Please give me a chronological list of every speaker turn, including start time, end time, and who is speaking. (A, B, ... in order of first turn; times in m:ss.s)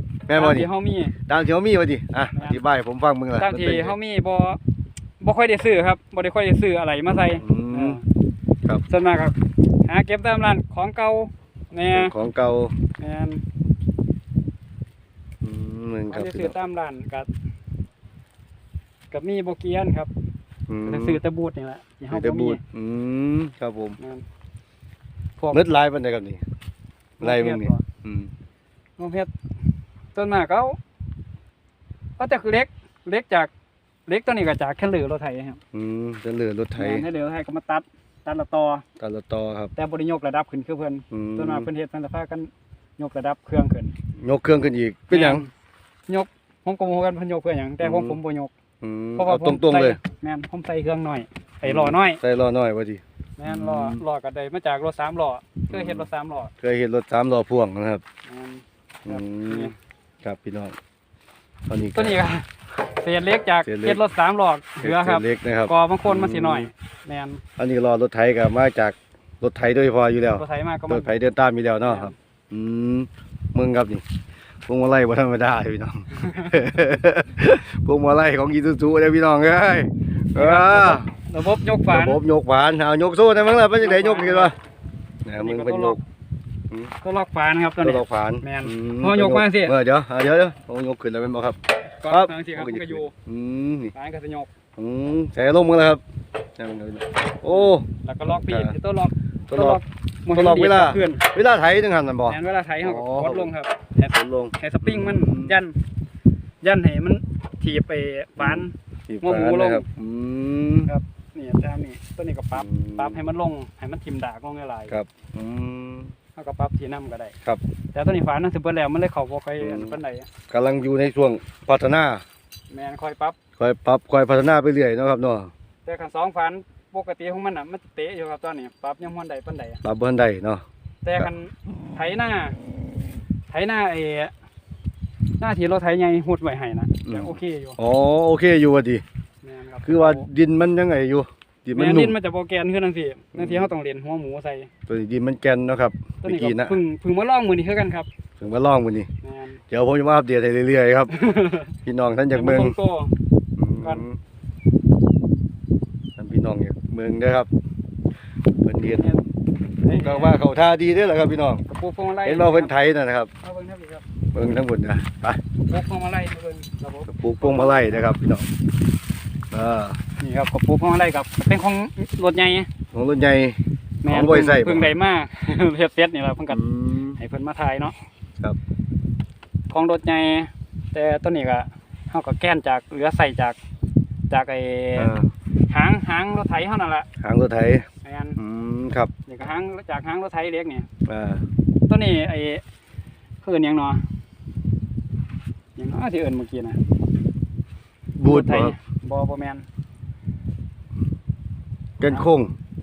0:00.3-0:00.7 A
0:00.3-0:01.2 B
0:01.3-0:03.9 A
0:03.4-0:04.6 B
0:05.2-0:08.0 B
0:07.4-0:08.0 A
0:08.9-0:09.3 B
0:09.8-0:12.1 B
0:11.9-0:12.7 A
0:13.0-0:13.4 B
0:15.4-0:16.5 A
0:16.1-0:17.3 B
0:19.1-0:20.1 B
0:20.7-0:21.2 A
0:20.8-0:22.6 B
0:22.1-0:24.0 A
0:25.5-0:26.4 A
0:27.2-0:28.3 A
0:27.2-0:27.8 B
0:29.0-0:29.3 B
0:30.1-0:30.8 B
0:32.2-0:33.5 B
0:34.1-0:35.6 B
0:35.7-0:37.1 A
0:36.8-0:38.8 B
0:39.0-0:39.7 A
0:39.8-0:43.9 B
0:41.1-0:41.7 A
0:44.2-0:45.4 A
0:45.1-0:45.5 B
0:46.1-0:48.5 B
0:47.8-0:48.2 A
0:48.8-0:50.0 A
0:49.2-0:52.2 B
0:51.6-0:54.0 A
0:53.4-0:56.5 B
0:55.7-0:56.1 A
0:56.6-0:58.0 A
0:58.3-0:59.7 B
0:59.0-0:59.7 A
1:00.2-1:00.8 A
1:01.7-1:02.2 A
1:01.9-1:07.4 B
1:03.6-1:04.0 A
1:04.8-1:06.7 A
1:07.6-1:14.0 A
1:10.3-1:11.1 B
1:11.8-1:12.1 B
1:14.7-1:21.1 A
1:16.1-1:16.5 B
1:20.4-1:22.2 B
1:21.9-1:24.5 A
1:23.8-1:24.5 B
1:25.2-1:26.0 A
1:25.4-1:26.0 B
1:27.0-1:29.7 B
1:27.8-1:33.9 A
1:32.0-1:33.1 B
1:33.9-1:34.5 B
1:34.8-1:36.0 A
1:36.6-1:37.8 A
1:37.5-1:41.2 B
1:38.5-1:38.7 A
1:39.5-1:43.5 A
1:42.3-1:45.8 B
1:44.1-1:45.5 A
1:46.6-1:49.8 B
1:48.4-1:50.9 A
1:50.9-1:54.9 B
1:52.5-1:53.2 A
1:54.9-1:56.1 A
1:56.4-1:57.3 B
1:57.9-2:00.3 B
1:59.6-2:00.0 A
2:00.5-2:02.2 A
2:02.7-2:03.4 B
2:03.6-2:05.5 A
2:05.8-2:09.8 B
2:09.8-2:10.6 A
2:11.0-2:12.6 B
2:13.5-2:14.3 B
2:15.4-2:17.8 B
2:17.0-2:19.0 A
2:19.4-2:20.3 B
2:19.8-2:22.1 A
2:21.7-2:24.7 B
2:23.3-2:23.7 A
2:24.9-2:26.8 A
2:26.2-2:28.1 B
2:28.4-2:29.1 A
2:29.2-2:29.6 B
2:29.7-2:31.1 A
2:31.1-2:31.7 B
2:31.8-2:32.7 A
2:32.3-2:33.1 B
2:33.6-2:34.2 A
2:36.2-2:37.5 A
2:38.6-2:39.2 A
2:38.8-2:39.2 B
2:39.8-2:40.4 B
2:39.9-2:41.6 A
2:41.7-2:42.7 B
2:42.2-2:43.3 A
2:43.4-2:44.0 B
2:44.3-2:45.4 A
2:45.7-2:48.1 B
2:47.1-2:48.5 A
2:49.5-2:50.0 A
2:50.2-2:52.7 B
2:52.9-2:54.9 A
2:54.0-2:56.6 B
2:56.5-2:57.2 A
2:57.2-2:57.9 B
2:59.7-3:03.6 B
3:04.3-3:05.1 B
3:05.0-3:05.3 A
3:05.7-3:07.1 B
3:07.2-3:07.8 A
3:08.0-3:08.4 B
3:08.4-3:09.1 A
3:09.3-3:10.8 B
3:11.1-3:11.4 A
3:11.9-3:12.6 B
3:13.4-3:14.0 B
3:15.8-3:16.8 B
3:18.2-3:18.7 A
3:18.2-3:19.6 B
3:22.0-3:22.5 A